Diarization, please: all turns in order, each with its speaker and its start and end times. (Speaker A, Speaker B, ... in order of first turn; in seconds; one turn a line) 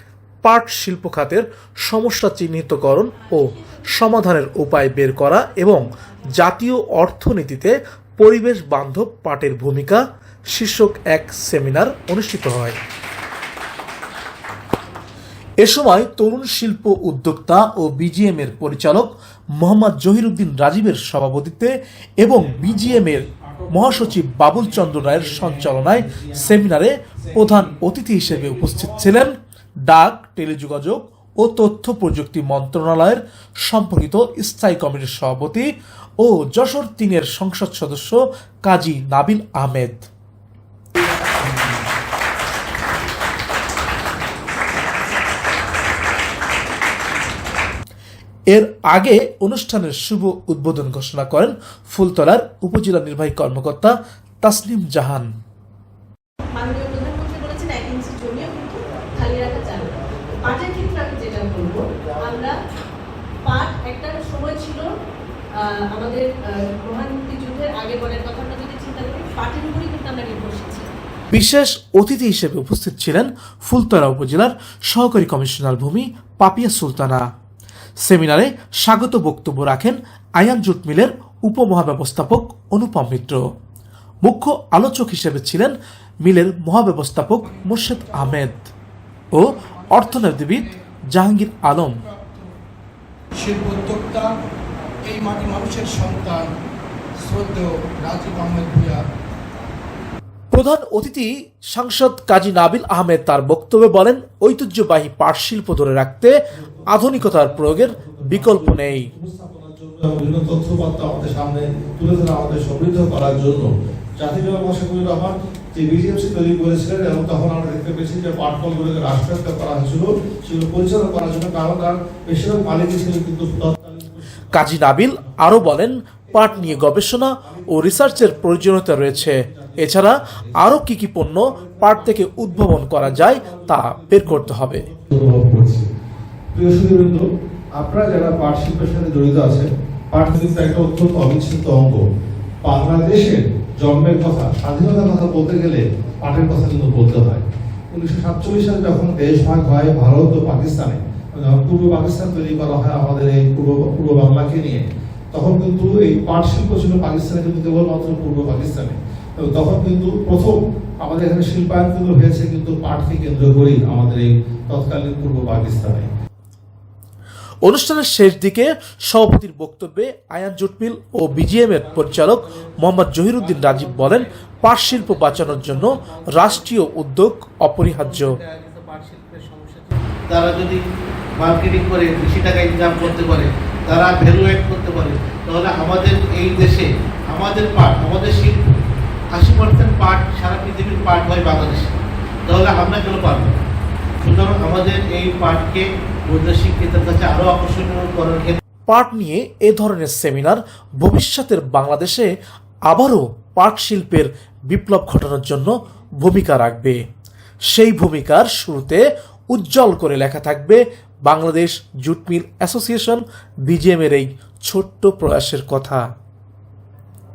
Speaker A: 0.4-12.8
Speaker A: 15.6-40.1
Speaker A: 48.5-55.3
Speaker B: 56.5-62.6
Speaker C: 59.0-60.3
Speaker C: 62.0-62.3
Speaker B: 63.4-64.9
Speaker B: 65.6-70.9
Speaker A: 71.3-77.2
Speaker A: 78.0-83.4
Speaker A: 84.2-88.7
Speaker D: 87.2-88.5
Speaker A: 89.3-92.0
Speaker D: 89.4-90.7
Speaker D: 91.9-92.5
Speaker D: 93.3-94.3
Speaker D: 95.0-96.5
Speaker D: 97.2-99.0
Speaker A: 100.5-109.1
Speaker E: 106.5-125.5
Speaker A: 124.5-134.9
Speaker E: 126.3-130.7
Speaker E: 131.2-135.8
Speaker E: 136.5-137.2
Speaker E: 137.8-142.0
Speaker E: 142.6-166.1
Speaker A: 167.6-178.4
Speaker C: 173.6-176.5
Speaker C: 178.0-180.8
Speaker C: 181.4-188.8
Speaker C: 189.3-193.6
Speaker C: 194.2-198.6
Speaker A: 198.9-202.3
Speaker A: 202.9-207.0
Speaker A: 207.7-216.0